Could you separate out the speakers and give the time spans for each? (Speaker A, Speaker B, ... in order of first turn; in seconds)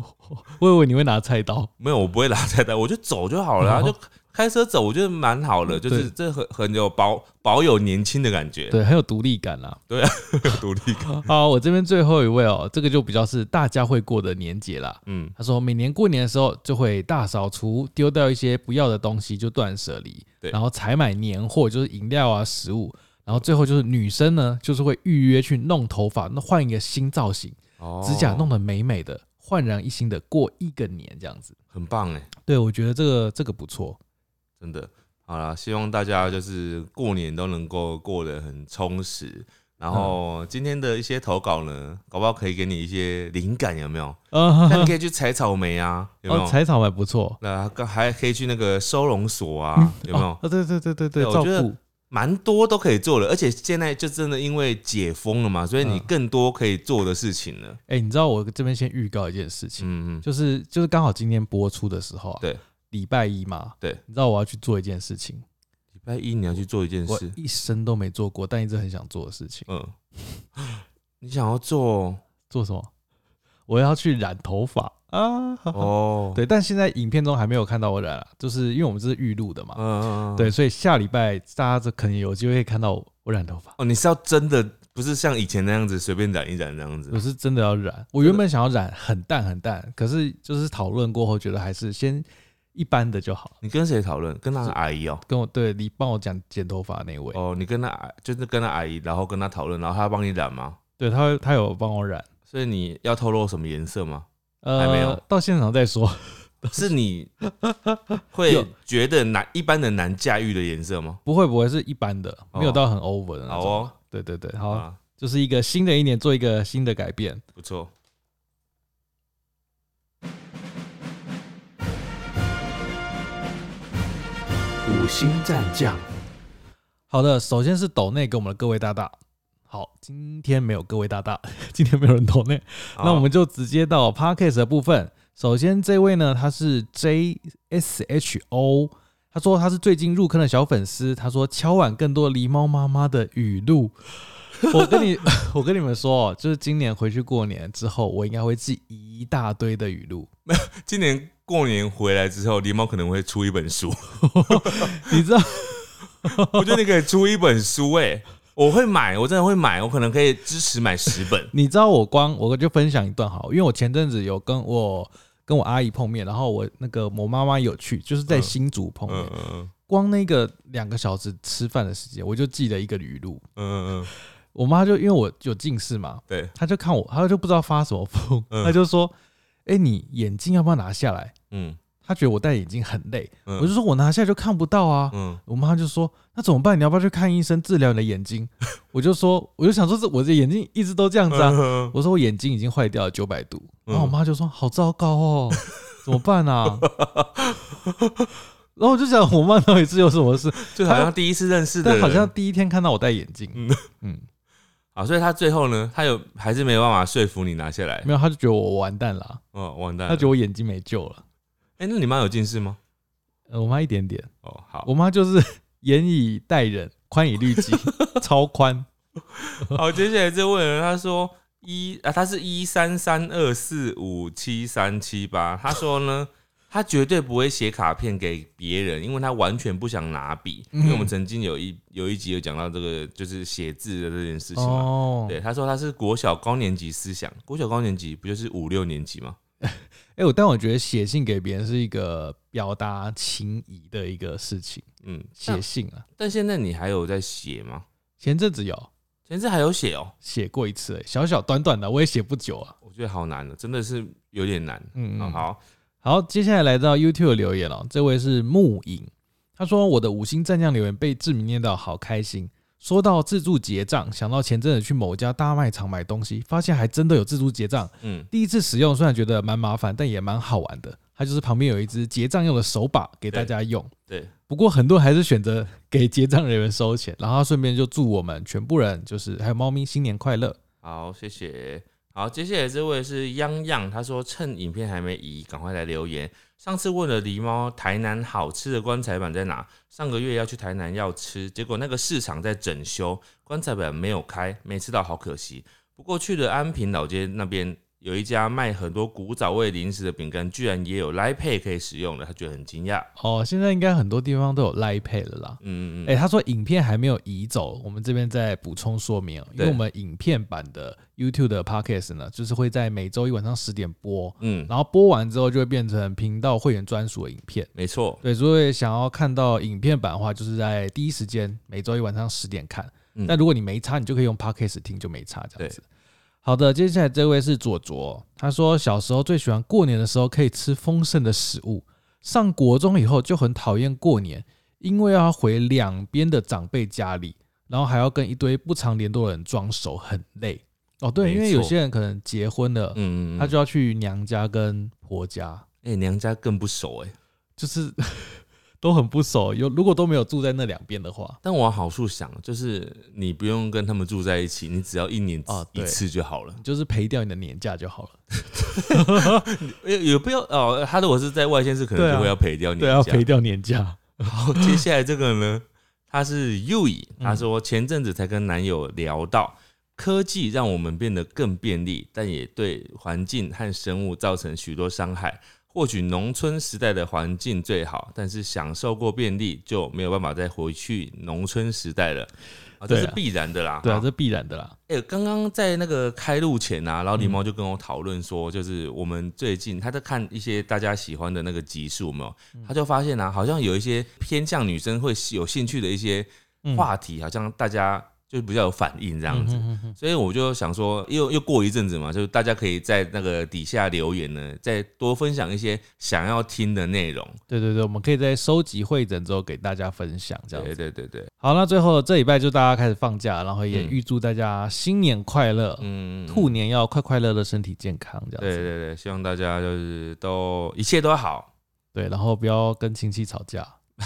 Speaker A: 0.3-1.7, 3.6-3.9, 5.7-6.1, 8.7-9.8, 11.1-31.5, 32.5-34.0, 44.3-44.9, 46.3-47.4, 49.8-51.8, 55.8-56.1, 57.9-65.4, 67.1-69.7, 72.5-72.9, 73.7-79.8, 80.3-83.8, 87.1-93.5, 94.6-97.4, 101.0-102.3, 104.6-106.9, 107.4-108.7, 111.2-117.4, 124.9-126.0, 127.1-129.2, 129.7-144.0, 144.6-150.3, 154.2-156.8, 161.5-169.3, 169.9-173.4, 174.5-179.1, 179.7-181.3, 182.0-196.9, 198.8-201.1, 201.8-204.2, 208.0-209.4, 210.1-211.2, 213.5-214.3, 214.8-218.9, 230.7-231.1, 234.6-235.4, 239.6-244.8, 245.4-246.0, 248.2-248.9, 250.2-252.8, 254.9-255.5, 256.0-273.9, 274.5-280.6, 303.2-317.7, 318.2-325.8, 326.4-345.6, 347.6-351.4, 355.5-356.0, 356.6-359.5, 361.9-364.8, 367.2-367.4, 382.9-383.2, 383.8-384.8, 396.6-396.9, 399.3-400.0, 407.5-410.7, 411.4-418.7, 421.9-423.8
Speaker B: 1.8-8.7, 9.9-11.2, 15.1-15.3, 27.8-28.5, 31.7-32.3, 34.6-46.6, 47.4-50.4, 51.2-57.8, 59.8-60.2, 65.9-67.3, 69.7-69.9, 70.5-72.2, 75.7-76.4, 79.8-80.5, 83.8-87.2, 93.6-95.2, 97.3-100.8, 102.5-105.2, 106.7-107.3, 108.3-111.2, 112.5-112.8, 113.5-113.9, 114.7-115.0, 117.6-117.9, 124.9-125.7, 132.9-133.3, 150.5-155.2, 156.2-161.5, 168.3-168.5, 169.1-169.7, 173.6-174.1, 176.3-176.5, 181.5-181.8, 183.4-183.7, 185.1-185.4, 191.3-191.9, 193.9-194.1, 196.8-198.3, 200.7-202.3, 203.5-203.8, 204.9-208.1, 209.5-210.3, 211.8-212.8, 214.4-214.9, 217.6-217.9, 219.3-239.4, 245.0-245.6, 246.2-247.8, 249.3-250.1, 252.8-255.6, 268.0-268.3, 280.8-303.1, 305.6-306.1, 314.4-314.7, 317.7-318.2, 341.2-341.7, 342.9-343.5, 345.8-347.1, 351.4-356.6, 358.5-363.3, 364.2-384.1, 384.9-407.4, 410.5-411.3, 413.7-413.9, 415.8-416.5, 418.4-421.5